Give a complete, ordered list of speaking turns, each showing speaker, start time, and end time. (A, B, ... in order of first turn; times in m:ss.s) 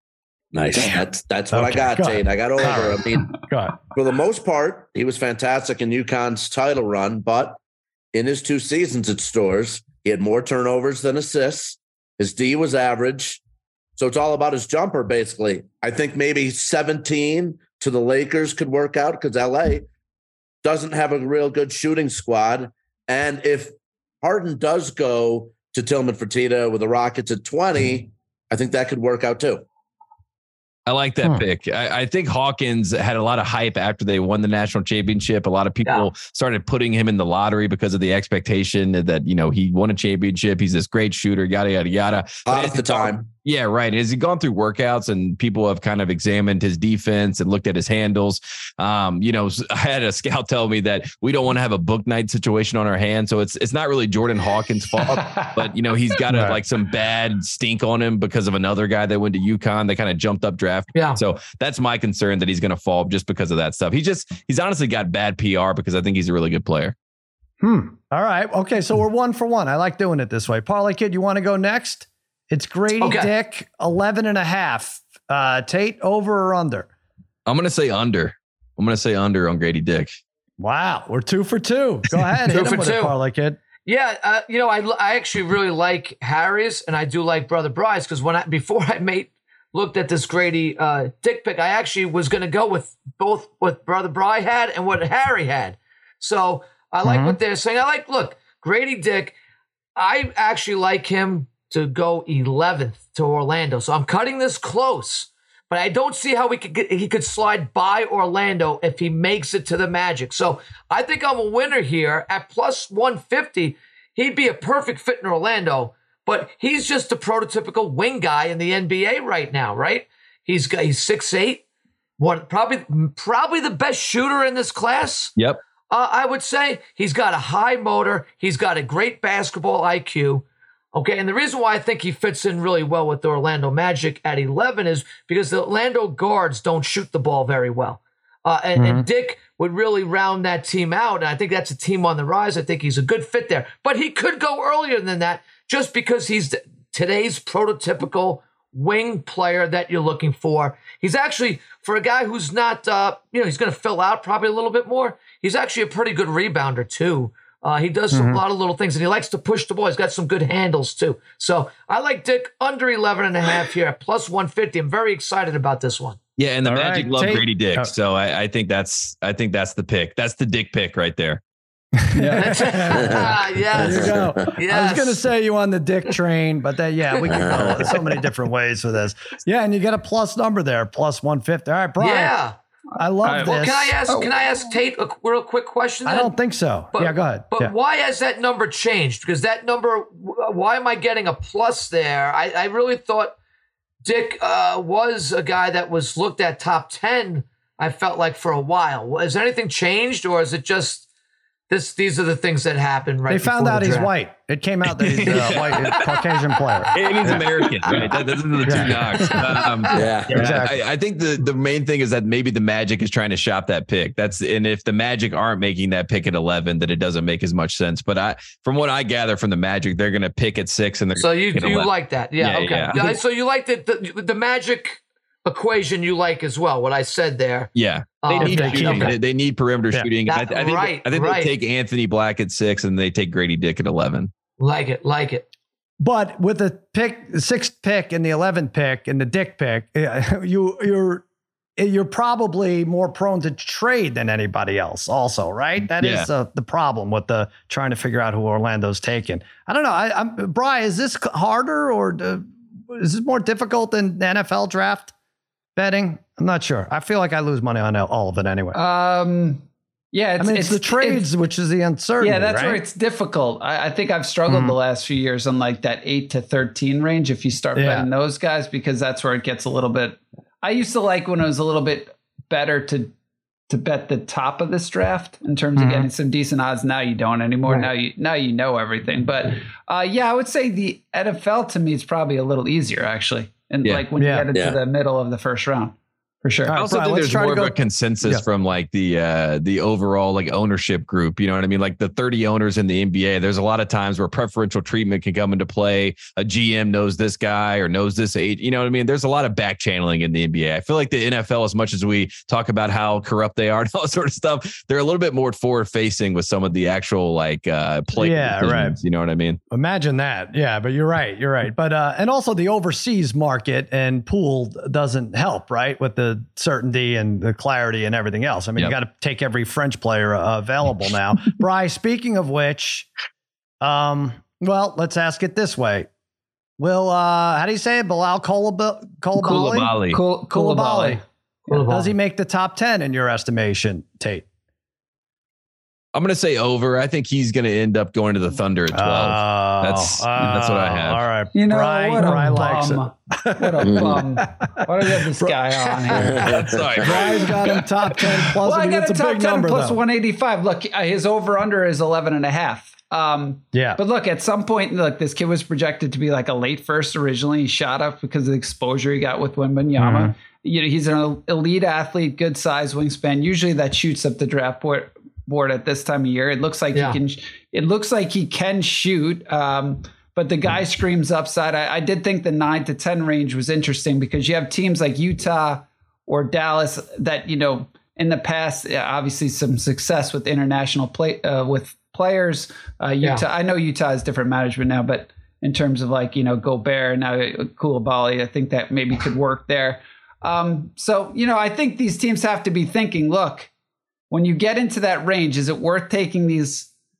0:00.5-0:03.4 A
0:00.7-0:03.8 B
0:03.9-0:07.6 A
0:08.1-0:13.4 A
0:14.0-0:19.8 A
0:20.6-0:29.6 A
0:30.8-1:06.9 C
0:42.4-0:43.3 A
0:55.1-0:55.6 D
0:56.3-0:56.6 B
1:07.6-1:16.9 B
1:13.0-1:13.3 E
1:17.4-1:20.2 C
1:20.6-1:23.6 B
1:22.5-1:23.2 E
1:23.8-1:39.3 E
1:37.0-1:37.4 B
1:40.0-2:01.6 E
2:02.2-2:05.3 E
2:05.9-2:46.2 E
2:18.8-2:19.0 B
2:38.1-2:38.4 B
2:46.4-2:51.4 C
2:46.6-2:47.9 B
2:52.0-2:53.2 B
2:52.4-2:55.2 E
2:53.0-2:54.5 A
2:53.8-3:02.4 B
2:57.3-2:58.2 A
3:02.0-3:02.6 E
3:03.0-3:03.9 B
3:03.2-3:04.3 D
3:03.4-3:06.3 E
3:06.0-3:07.7 B
3:06.9-3:13.3 E
3:14.0-3:21.0 E
3:21.7-3:24.1 E
3:23.3-3:27.4 B
3:24.9-3:26.1 C
3:26.9-3:41.9 C
3:28.7-3:29.4 B
3:29.3-3:29.9 E
3:29.9-3:30.5 A
3:30.3-3:30.8 B
3:41.1-3:49.1 E
3:42.4-3:43.2 C
3:47.7-3:54.3 C
3:48.4-3:49.1 B
3:50.3-3:51.5 E
3:54.6-3:55.5 E
3:56.0-4:01.2 B
4:01.8-4:15.1 B
4:06.0-4:06.3 C
4:15.8-4:18.8 B
4:18.7-4:21.2 D
4:20.4-4:22.8 B
4:22.2-4:33.1 D
4:24.5-4:24.7 B
4:27.8-4:28.0 B
4:33.7-4:46.8 D
4:35.8-4:36.1 B
4:44.2-4:44.4 B
4:44.5-4:44.8 A
4:46.6-4:48.4 B
4:46.7-5:09.6 C
5:08.1-5:09.0 B
5:09.7-5:23.1 B
5:23.8-5:26.1 B
5:26.8-5:29.9 B
5:29.4-5:31.2 D
5:29.5-5:30.2 C
5:30.5-5:31.2 B
5:31.7-5:32.1 E
5:31.9-5:34.4 B
5:36.1-5:41.2 C
5:38.9-5:45.6 B
5:41.5-5:46.5 D
5:43.8-5:44.2 A
5:46.1-5:47.0 A
5:46.6-5:47.5 C
5:47.0-5:50.0 B
5:48.4-6:33.7 D
5:53.7-5:54.0 B
6:00.0-6:00.3 B
6:34.3-6:36.9 D